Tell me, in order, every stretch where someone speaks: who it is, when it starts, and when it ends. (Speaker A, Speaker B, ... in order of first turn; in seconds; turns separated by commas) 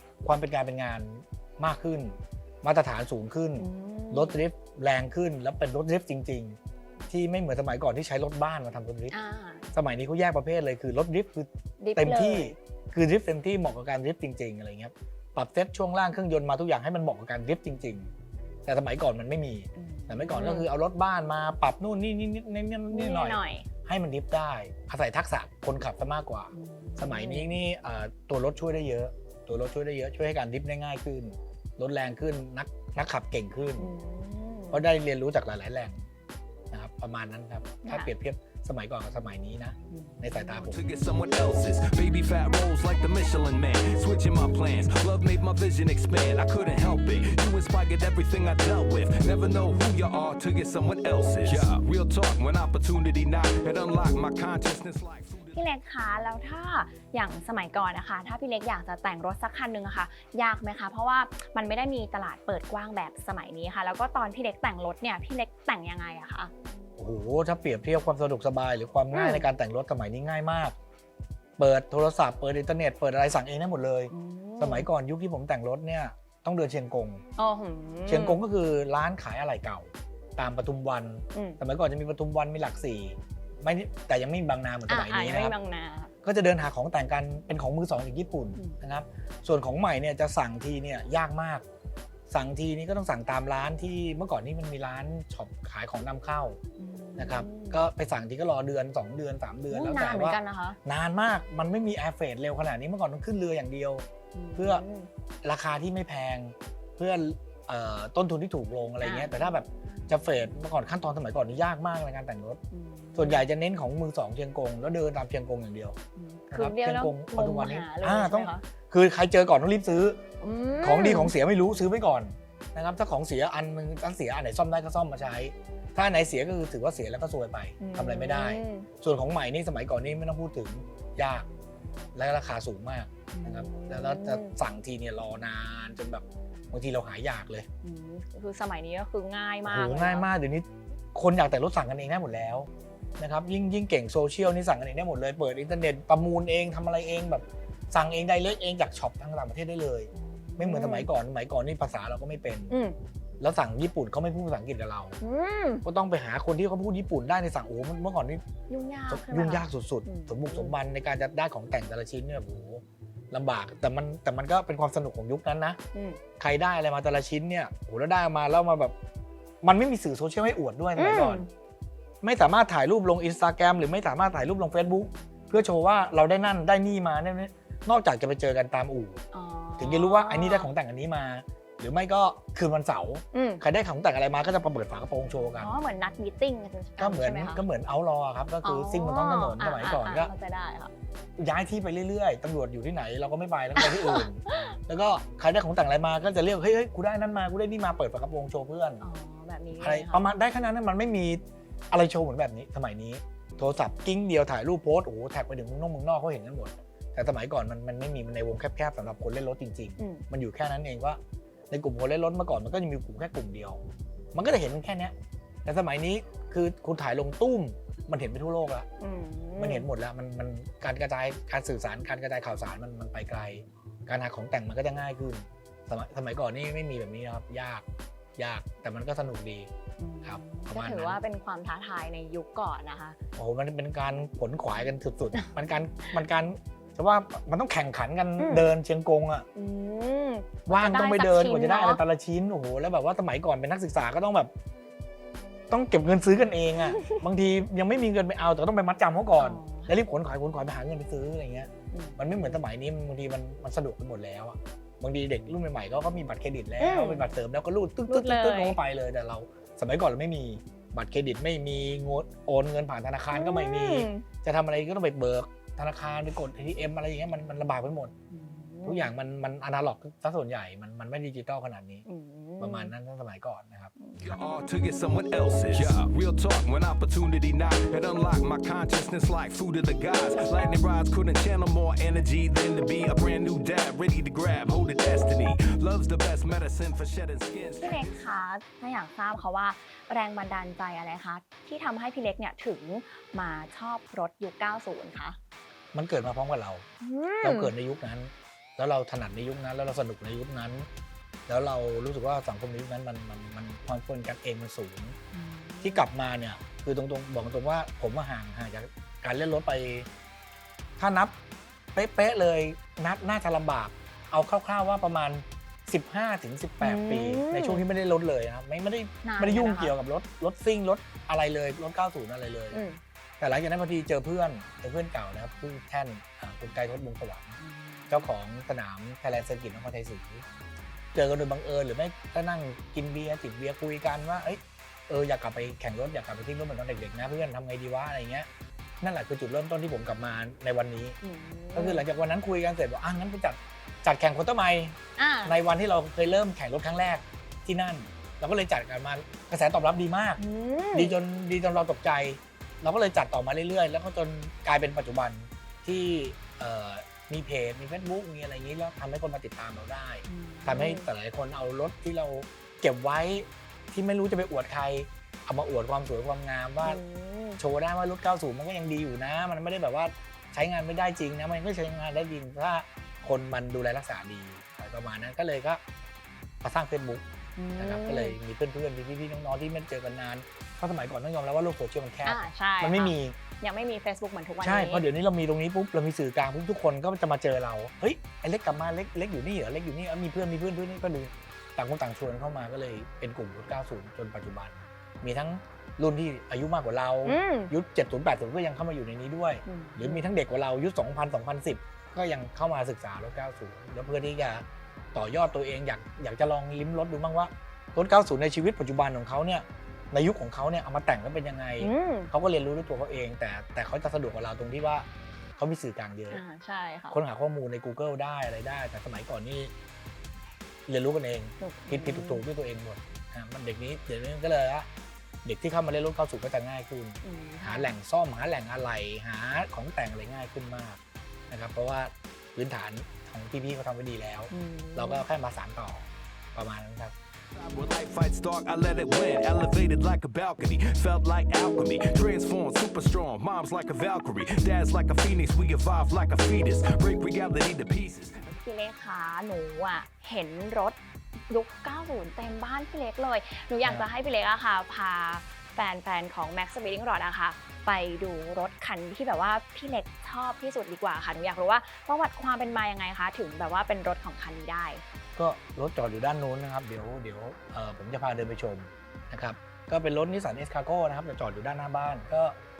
Speaker A: 0.2-6.6, Speaker B: 3.6-4.4, Speaker A: 7.1-9.1, Speaker B: 9.1-9.7, Speaker A: 9.7-18.1, Speaker B: 11.8-12.6, Speaker A: 18.6-33.9, Speaker B: 19.8-20.7, Speaker B: 22.9-23.7, Speaker B: 26.5-27.5, Speaker B: 33.8-34.8, Speaker A: 34.7-36.0, Speaker A: 36.7-40.8, Speaker B: 37.8-38.1, Speaker B: 39.9-40.6, Speaker C: 40.6-55.6, Speaker B: 55.5-66.5, Speaker A: 67.0-70.7, Speaker B: 69.1-69.5, Speaker A: 71.6-77.2, Speaker B: 74.1-74.9, Speaker B: 77.4-78.4, Speaker A: 78.1-85.5, Speaker B: 81.3-81.6, Speaker B: 84.9-86.1, Speaker A: 86.2-91.6, Speaker A: 92.3-96.6, Speaker B: 96.8-97.8, Speaker A: 97.2-104.8, Speaker B: 99.7-100.8, Speaker B: 104.3-105.1, Speaker A: 105.4-112.6, Speaker B: 109.0-109.3, Speaker B: 112.7-113.4, Speaker A: 113.1-116.0, Speaker B: 116.2-118.6, Speaker A: 116.5-120.2, Speaker B: 120.4-121.3, Speaker A: 120.8-131.5, Speaker B: 127.8-128.9, Speaker A: 132.1-137.7, Speaker B: 133.3-134.5, Speaker B: 137.8-140.3, Speaker A: 139.7-152.7, Speaker B: 150.2-151.1, Speaker B: 152.7-152.9, Speaker A: 153.4-155.2, Speaker B: 155.2-155.8, Speaker A: 155.8-158.4, Speaker B: 158.7-160.7, Speaker A: 159.1-165.8, Speaker B: 165.9-166.2, Speaker A: 166.4-168.9, Speaker A: 169.6-171.4, Speaker B: 170.9-171.5, Speaker A: 172.2-179.2, Speaker B: 179.3-180.7, Speaker A: 179.8-185.7, Speaker B: 183.3-183.6, Speaker B: 185.6-187.6, Speaker A: 187.0-190.3, Speaker B: 188.6-190.9, Speaker A: 191.4-199.0, Speaker B: 193.8-194.8, Speaker B: 199.0-200.3, Speaker A: 199.8-211.2, Speaker B: 210.0-210.2, Speaker A: 211.7-213.8, Speaker A: 214.3-218.9, Speaker B: 219.0-219.9, Speaker A: 219.6-227.8, Speaker A: 228.3-229.7, Speaker B: 230.0-233.2, Speaker A: 230.2-231.2, Speaker A: 233.3-239.5, Speaker B: 238.4-238.7, Speaker B: 239.5-242.0, Speaker A: 240.7-244.5, Speaker A: 245.7-268.1, Speaker B: 246.9-247.2, Speaker B: 249.4-249.9, Speaker B: 251.9-252.6, Speaker B: 256.8-257.3, Speaker B: 258.1-258.8, Speaker B: 263.3-264.2, Speaker B: 268.3-269.1, Speaker A: 268.8-272.1, Speaker B: 272.1-272.9, Speaker A: 272.6-273.9, Speaker B: 274.0-274.4, Speaker C: 274.2-288.1, Speaker B: 287.8-295.4, Speaker A: 295.9-296.8, Speaker B: 297.0-297.7, Speaker A: 297.4-300.9, Speaker A: 301.5-305.1, Speaker B: 305.3-306.0, Speaker A: 305.8-310.1, Speaker A: 311.0-311.4, Speaker A: 311.9-322.8, Speaker B: 316.8-317.8, Speaker B: 319.2-319.9, Speaker B: 322.7-323.0, Speaker A: 323.4-327.6, Speaker B: 327.6-328.3, Speaker A: 328.1-330.4, Speaker A: 331.1-338.5, Speaker A: 339.0-341.2, Speaker B: 341.2-342.0, Speaker A: 341.7-350.4, Speaker B: 345.2-345.6, Speaker B: 350.4-351.1, Speaker A: 350.9-367.0, Speaker B: 360.3-361.1, Speaker B: 366.8-367.6, Speaker A: 367.6-375.8, Speaker A: 376.6-377.2, Speaker B: 377.6-378.4, Speaker A: 377.8-383.4, Speaker B: 382.2-385.0, Speaker A: 384.6-416.4, Speaker B: 397.2-397.7, Speaker B: 399.7-400.2, Speaker B: 411.8-412.3, Speaker B: 416.3-417.2, Speaker A: 417.1-419.7, Speaker A: 420.9-424.9, Speaker B: 421.6-422.4, Speaker A: 425.4-437.1, Speaker B: 427.2-427.9, Speaker B: 434.5-435.2, Speaker C: 437.5-448.6, Speaker B: 448.5-451.0, Speaker B: 451.5-465.0, Speaker A: 465.4-472.6